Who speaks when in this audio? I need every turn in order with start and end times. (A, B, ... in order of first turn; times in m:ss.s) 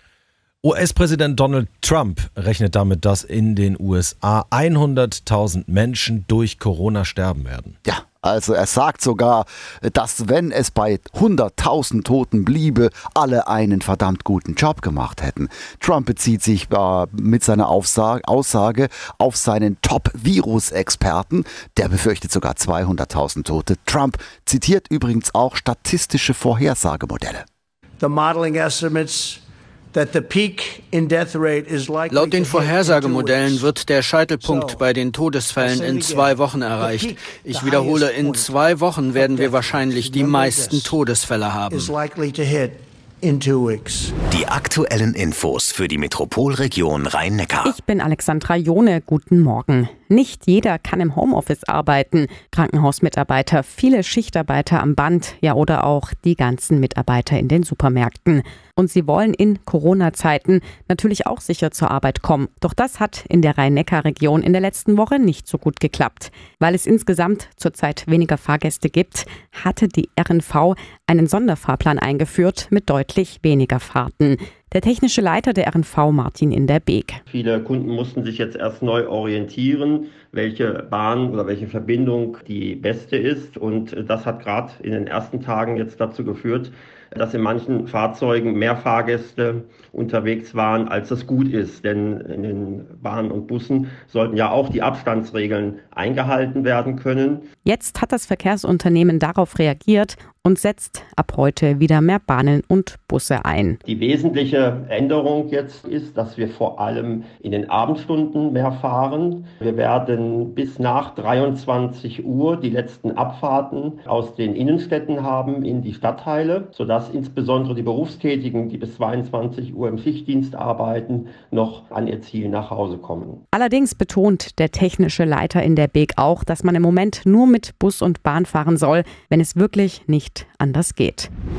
0:00.6-0:07.8 A
0:07.9-0:27.4 B
0:28.0-0:29.4 C
0:29.9-0:33.7 C
0:32.1-0:42.0 D
0:35.7-0:36.2 C
0:37.0-0:38.5 C
0:40.0-0:40.7 C
0:41.7-0:44.1 C
0:44.3-0:47.7 E
0:47.7-1:17.2 F
1:17.3-1:37.5 G
1:37.6-1:43.8 F
1:43.8-2:03.4 G
2:03.5-2:11.3 F